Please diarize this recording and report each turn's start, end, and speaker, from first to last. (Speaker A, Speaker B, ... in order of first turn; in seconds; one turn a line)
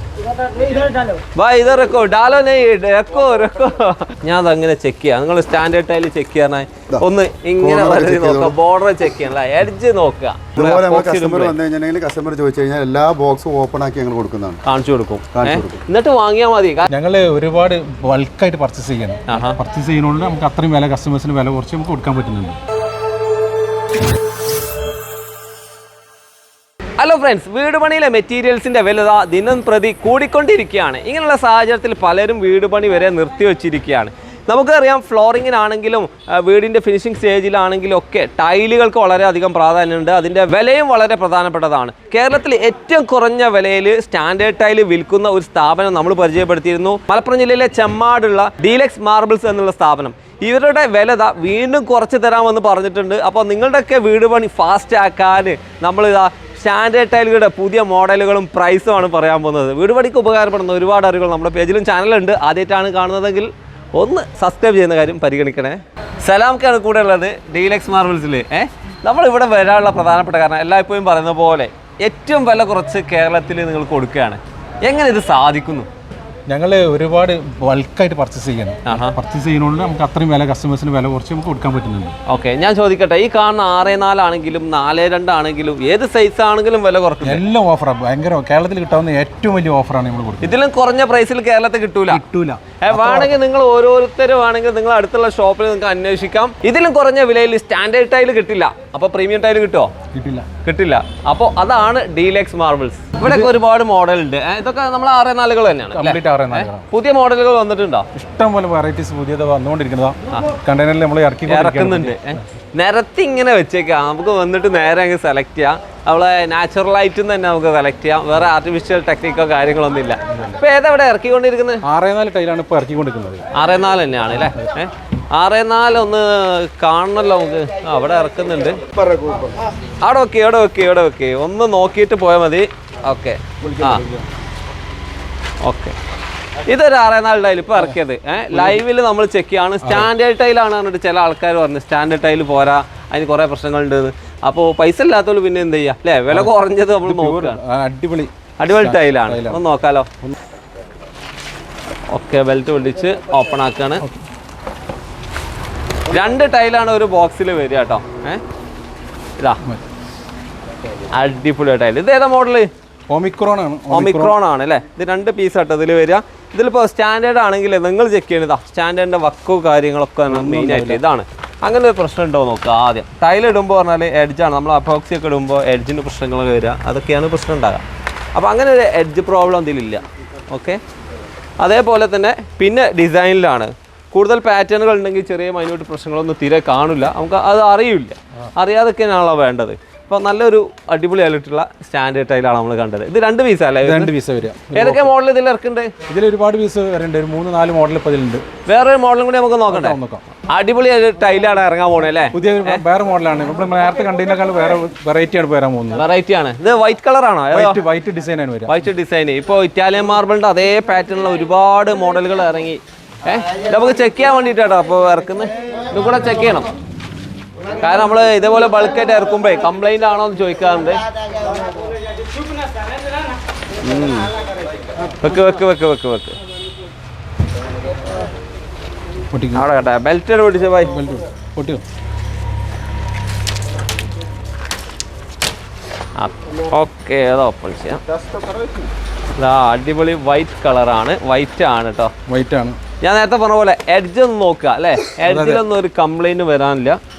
Speaker A: 0.6-11.6
Speaker B: 7.6-8.6
Speaker B: 10.5-14.6
Speaker A: 14.7-16.9
Speaker B: 15.3-15.8
Speaker C: 16.9-22.6
Speaker A: 19.3-19.6
Speaker A: 27.0-75.9
Speaker C: 76.5-82.2
Speaker A: 78.9-79.2
Speaker A: 82.3-87.5
Speaker C: 87.2-90.6
Speaker A: 90.4-92.2
Speaker C: 92.1-93.3
Speaker A: 92.8-99.9
Speaker C: 100.1-100.5
Speaker A: 100.6-108.1
Speaker C: 103.2-103.5
Speaker C: 105.9-106.9
Speaker C: 108.1-112.4
Speaker A: 111.5-121.8
Speaker C: 120.3-120.6
Speaker C: 121.8-123.4
Speaker A: 123.5-128.8
Speaker C: 124.3-124.7
Speaker B: 128.9-129.5
Speaker A: 130.0-134.1
Speaker B: 133.7-133.9
Speaker A: 135.6-135.9
Speaker A: 136.7-147.6
Speaker C: 138.5-138.8
Speaker C: 139.8-140.1
Speaker C: 147.0-149.6
Speaker A: 148.6-150.1
Speaker A: 152.1-154.0
Speaker A: 156.1-158.4
Speaker A: 161.1-162.7
Speaker C: 163.1-164.4
Speaker A: 163.9-177.8
Speaker C: 170.3-171.0
Speaker A: 178.3-180.8
Speaker A: 181.6-194.1
Speaker C: 193.8-195.1
Speaker A: 194.7-195.9
Speaker C: 196.1-198.4
Speaker A: 198.7-202.8
Speaker C: 199.7-200.2
Speaker C: 202.3-206.0
Speaker A: 205.9-207.8
Speaker C: 207.5-208.8
Speaker A: 208.7-216.7
Speaker A: 217.8-221.0
Speaker A: 223.8-224.3
Speaker A: 225.2-226.4
Speaker C: 229.3-229.7
Speaker A: 229.5-231.0
Speaker C: 230.9-231.8
Speaker A: 236.2-238.0
Speaker C: 238.2-238.9
Speaker A: 239.3-242.1
Speaker C: 242.3-242.8
Speaker A: 243.0-247.0
Speaker C: 245.1-245.6